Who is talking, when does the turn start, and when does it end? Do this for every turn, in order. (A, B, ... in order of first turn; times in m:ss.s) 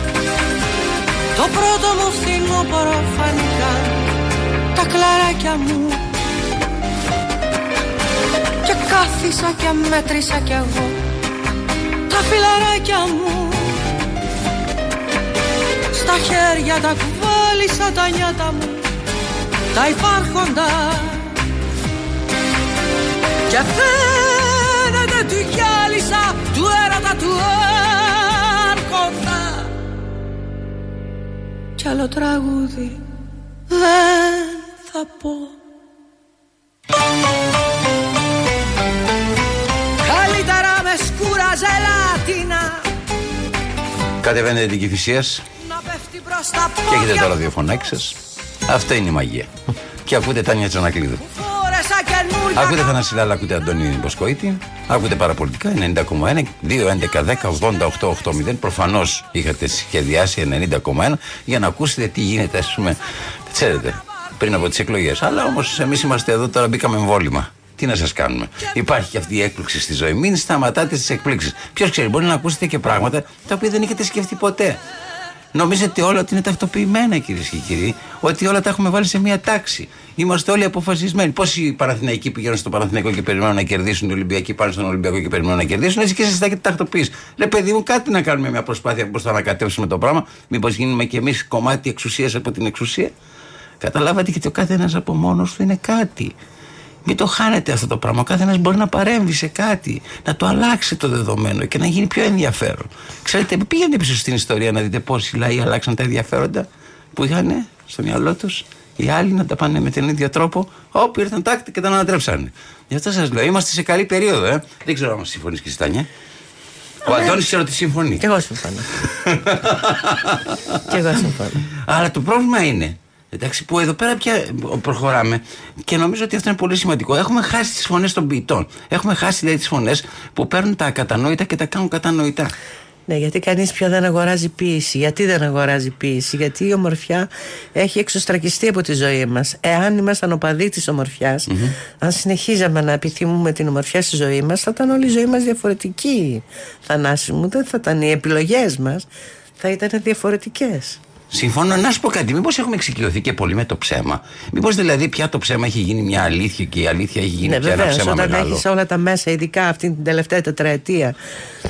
0:01.4-0:04.0 A
0:04.8-0:06.0 A
0:08.6-0:11.0 A
0:12.1-0:13.8 A
0:15.9-0:18.8 A
0:19.7-0:21.4 A
0:23.5-0:29.7 A
0:31.8-0:33.0 A
0:33.7-0:35.6 A
0:40.0-0:42.9 A
0:44.2-0:45.4 B
0:45.6-0:47.4 A
0:46.9-0:49.5 B
0:50.0-0:51.2 B
0:51.3-0:53.0 A
0:52.6-1:14.8 B
1:15.5-1:33.1 B
1:33.8-1:36.4 B
1:37.0-1:56.1 B
1:57.0-1:58.2 B
1:57.1-1:57.4 A
1:58.2-1:58.9 A
1:59.0-2:00.8 B
2:00.9-2:01.6 A
2:01.8-2:12.5 B
2:13.1-2:21.5 A
2:21.5-2:21.8 B
2:22.0-2:29.1 A
2:29.6-2:31.0 A
2:31.3-2:38.6 B
2:37.4-2:41.2 A